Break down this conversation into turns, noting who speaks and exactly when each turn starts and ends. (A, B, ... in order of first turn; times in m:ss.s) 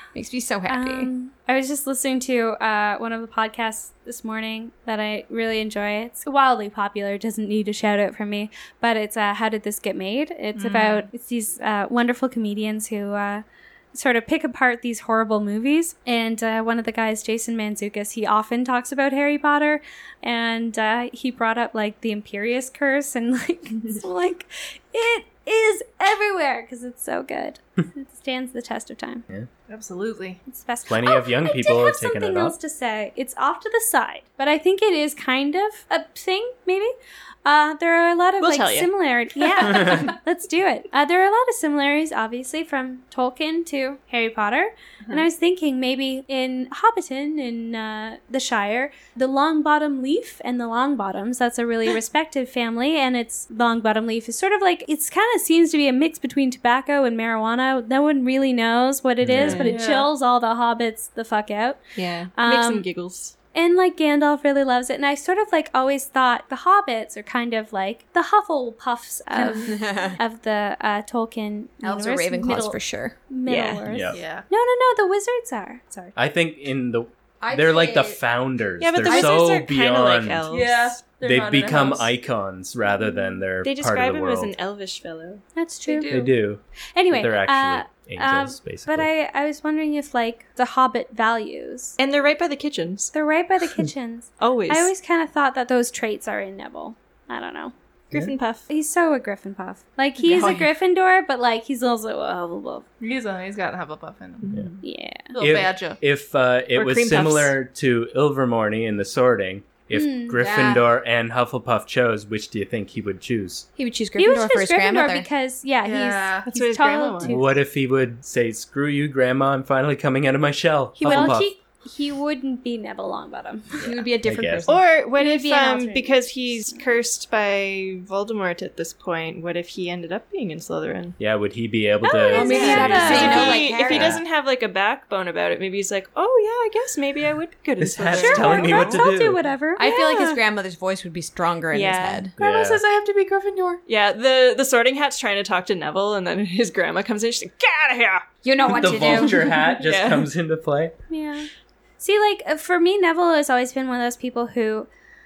0:00.1-0:01.1 A
0:00.7-0:29.2 B
0:10.6-0:11.1 C
0:29.7-0:30.4 C
0:30.5-0:36.9 B
0:30.9-0:32.6 D
0:37.4-1:01.8 B
0:38.4-0:38.9 E
0:39.7-0:40.1 C
0:59.2-0:59.7 D
0:59.4-0:59.8 E
0:59.6-1:00.1 C
1:02.0-1:03.4 E
1:02.4-1:02.9 B
1:03.5-1:16.2 B
1:09.4-1:10.2 A
1:09.4-1:09.7 C
1:11.8-1:13.2 A
1:13.5-1:13.8 E
1:13.9-1:14.2 D
1:14.1-1:14.5 C
1:16.2-1:24.6 D
1:17.4-1:18.2 A
1:18.8-1:20.9 E
1:20.5-1:22.1 C
1:23.6-1:25.4 E
1:25.6-1:26.2 B
1:25.9-1:26.4 C
1:26.1-1:29.1 D
1:27.0-1:32.0 B
1:32.0-1:33.1 E
1:33.1-1:37.7 B
1:34.4-1:34.9 E
1:38.1-1:38.7 E
1:38.7-1:42.8 B
1:40.2-1:40.7 C
1:43.0-1:44.5 C
1:44.4-1:44.8 E
1:44.8-1:45.3 B
1:45.3-1:46.0 C
1:45.4-1:53.7 D
1:46.7-1:47.6 E
1:49.9-1:50.4 B
1:50.4-1:50.8 A
1:53.8-1:55.3 A
1:54.2-1:57.4 B
1:55.8-1:56.5 C
1:56.5-1:57.4 E
1:57.2-2:01.5 D
2:01.0-2:01.4 A
2:01.0-2:04.1 B
2:03.8-2:04.8 A
2:04.2-2:04.7 D
2:04.7-2:11.2 E
2:05.2-2:06.9 B
2:11.2-2:14.2 D
2:12.0-2:13.7 B
2:12.3-2:14.2 A
2:12.5-2:19.0 E
2:17.8-2:19.4 D
2:18.1-2:20.4 B
2:19.8-2:22.3 A
2:21.7-2:22.2 E
2:22.4-2:22.8 D
2:22.4-2:23.8 C
2:23.9-2:30.3 E
2:28.4-2:29.5 A
2:28.7-2:30.9 D
2:31.1-2:31.5 B
2:32.0-2:34.9 B